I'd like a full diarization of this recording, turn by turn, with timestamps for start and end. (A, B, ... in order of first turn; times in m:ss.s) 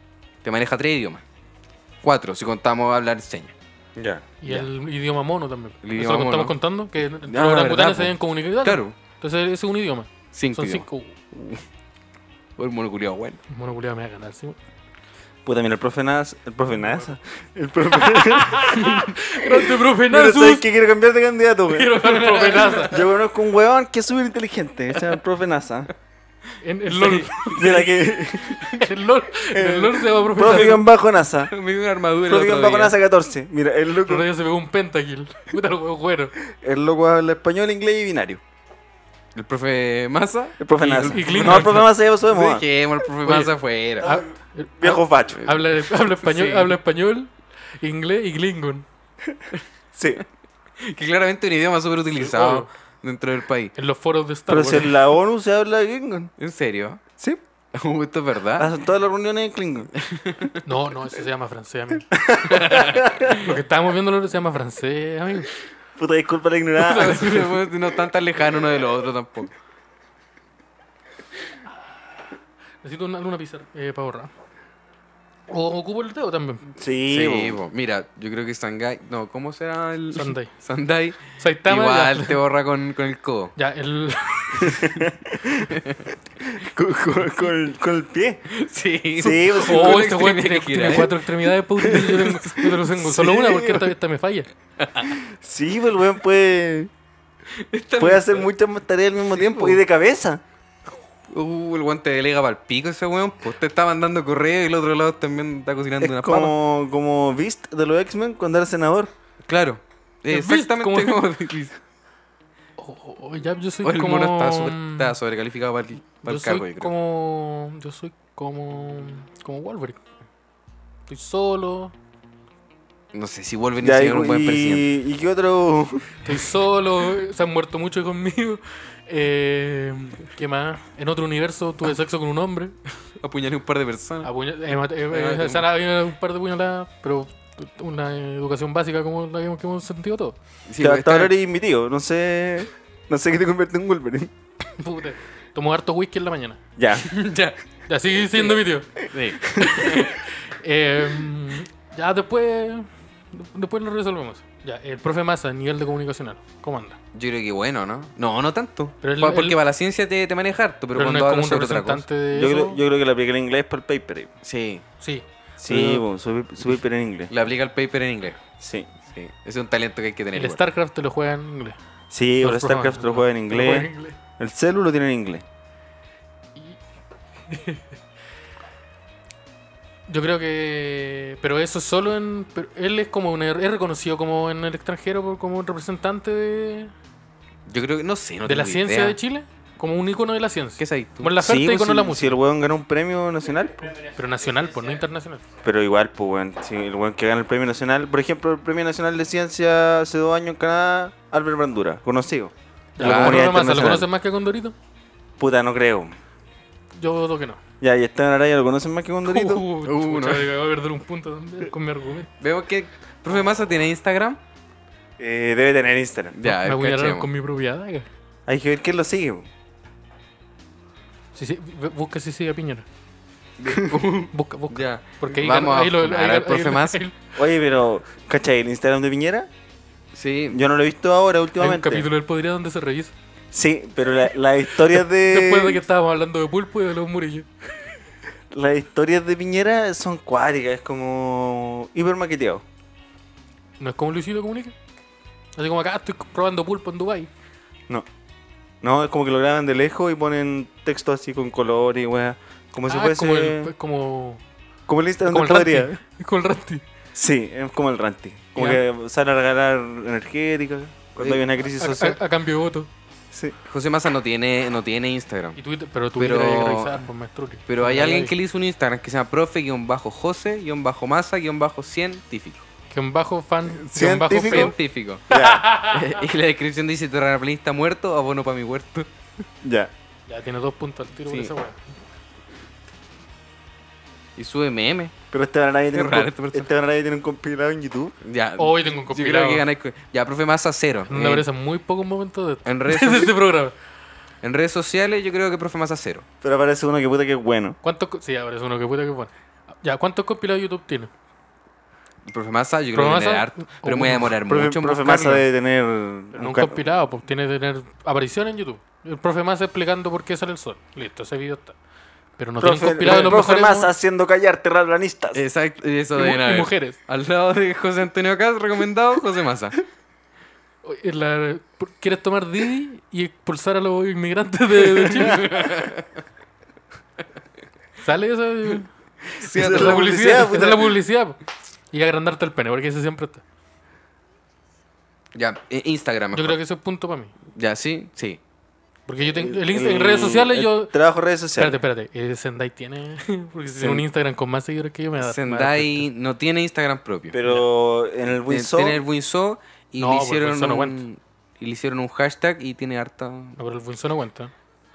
0:00.4-0:01.2 A
0:02.0-0:03.5 A
0:04.0-0:04.3 B
0:04.4-0:11.2 C
0:05.8-0:06.6 A
0:07.3-0:09.0 A
0:10.3-0:10.9 A
0:12.6-0:13.4 A
0:13.5-0:14.6 C
0:15.4-0:22.0 B
0:17.9-0:20.6 C
0:21.7-0:23.0 C
0:22.1-0:22.9 A
0:22.8-0:25.9 B
0:26.6-0:27.9 C
0:26.9-0:27.7 A
0:27.6-0:28.6 B
0:28.6-0:28.9 A
0:28.7-0:30.8 C
0:29.5-0:31.5 B
0:31.5-0:33.0 A
0:32.3-0:34.3 B
0:34.0-0:36.3 C
0:36.5-0:38.4 B
0:39.4-0:44.2 A
0:40.6-0:42.6 B
0:41.1-0:41.9 C
0:43.2-0:48.9 C
0:44.8-0:45.4 B
0:45.4-0:46.8 A
0:50.0-0:50.2 B
0:50.8-0:53.7 A
0:52.2-0:52.7 C
0:53.8-0:54.9 C
0:54.5-0:56.3 B
0:56.4-0:57.0 A
0:57.7-0:58.7 A
0:58.6-0:59.9 B
1:00.0-1:00.6 A
1:00.6-1:05.5 C
1:02.1-1:03.4 B
1:02.5-1:03.0 A
1:06.0-1:07.4 B
1:06.8-1:09.5 A
1:07.0-1:07.5 C
1:12.8-1:14.3 C
1:15.5-1:16.7 C
1:16.8-1:17.6 B
1:17.1-1:23.5 A
1:20.1-1:20.5 C
1:21.4-1:22.4 C
1:23.6-1:25.1 C
1:24.7-1:25.7 B
1:25.7-1:26.1 A
1:26.4-1:28.5 B
1:28.5-1:33.8 A
1:29.2-1:30.1 B
1:29.3-1:34.5 C
1:34.8-1:35.1 A
1:35.2-1:36.9 B
1:37.5-1:38.5 A
1:38.0-1:40.4 B
1:39.3-1:39.8 A
1:41.3-1:46.5 A
1:46.0-1:49.1 B
1:49.5-1:51.8 A
1:50.3-1:51.2 C
1:52.8-1:55.2 C
1:53.8-1:56.9 A
1:56.2-2:00.0 C
2:01.1-2:01.9 C
2:03.1-2:04.9 A
2:03.8-2:06.2 B
2:06.2-2:12.8 C
2:13.2-2:14.3 A
2:14.2-2:20.4 C
2:15.1-2:15.7 A
2:20.7-2:21.3 A
2:20.8-2:24.3 B
2:24.8-2:26.6 C
2:26.8-2:27.1 B
2:27.0-2:27.6 A
2:27.9-2:29.0 C
2:29.1-2:30.1 A
2:29.5-2:37.0 C
2:37.1-2:42.1 A
2:39.0-2:39.6 C
2:41.0-2:42.8 C
2:42.3-2:44.3 B
2:44.4-2:44.8 A
2:45.0-2:46.0 C
2:45.6-2:47.3 B
2:47.3-2:48.4 A
2:48.6-2:48.9 B
2:49.1-2:50.6 A
2:50.4-2:51.8 C
2:52.1-2:55.4 B
2:52.4-2:54.2 C
2:57.5-2:57.8 C
3:00.1-3:06.9 C
3:07.7-3:09.2 A
3:08.4-3:12.4 C
3:10.8-3:11.4 A
3:11.4-3:14.0 B
3:14.1-3:15.4 C
3:15.6-3:24.1 B
3:23.0-3:24.8 C
3:23.0-3:23.5 A
3:25.4-3:26.2 B
3:27.0-3:27.6 C
3:27.8-3:29.6 B
3:29.2-3:32.3 C
3:29.8-3:30.5 A
3:32.4-3:34.4 A
3:35.2-3:36.4 B
3:36.3-3:37.3 A
3:36.4-3:38.1 C
3:38.5-3:39.5 B
3:41.4-3:42.9 C
3:43.6-3:47.0 A
3:44.3-3:47.2 C
3:47.4-3:49.5 B
3:50.1-3:50.6 A
3:50.5-3:52.1 B
3:51.6-3:53.1 C
3:53.5-3:55.8 B
3:55.0-3:57.5 C
3:58.5-4:02.6 B
4:03.8-4:04.8 C
4:05.6-4:07.3 C
4:08.8-4:13.7 B
4:12.8-4:14.4 C
4:14.9-4:16.0 B
4:15.2-4:16.8 C
4:17.2-4:22.2 B
4:18.6-4:18.8 C
4:21.7-4:22.9 C
4:23.3-4:23.6 B
4:23.7-4:25.6 A
4:25.6-4:28.3 C
4:26.2-4:27.0 A
4:27.7-4:32.6 A
4:32.9-4:34.8 C
4:33.8-4:34.7 B
4:34.4-4:35.2 A
4:35.3-4:35.6 B
4:35.3-4:36.2 C
4:35.8-4:39.1 A
4:39.6-4:39.9 B
4:40.3-4:41.8 C
4:44.4-4:45.1 A
4:45.3-4:48.1 B
4:45.9-4:46.7 A
4:48.2-4:51.5 A
4:48.6-4:49.6 C
4:51.1-4:53.8 C
4:52.7-4:53.4 A
4:54.4-4:56.2 A
4:56.4-4:57.8 B
4:57.8-5:01.1 C
5:02.3-5:05.4 A
5:02.9-5:04.3 C
5:04.5-5:06.8 B
5:06.4-5:11.8 C
5:12.4-5:13.9 C
5:12.6-5:15.4 B
5:13.1-5:13.3 A
5:15.3-5:19.8 A
5:16.2-5:17.0 C
5:20.8-5:25.5 C
5:24.9-5:26.1 A
5:28.0-5:28.9 C
5:29.4-5:30.4 A
5:29.5-5:31.0 B
5:29.6-5:31.4 C
5:31.9-5:33.4 C
5:35.4-5:36.6 A
5:36.3-5:37.3 C
5:37.6-5:38.4 A
5:39.1-5:40.9 C
5:39.2-5:41.8 B
5:41.6-5:46.1 C
5:45.2-5:47.4 A
5:47.3-5:49.0 B
5:48.5-5:53.6 A
5:50.0-5:51.0 C
5:53.6-5:54.5 C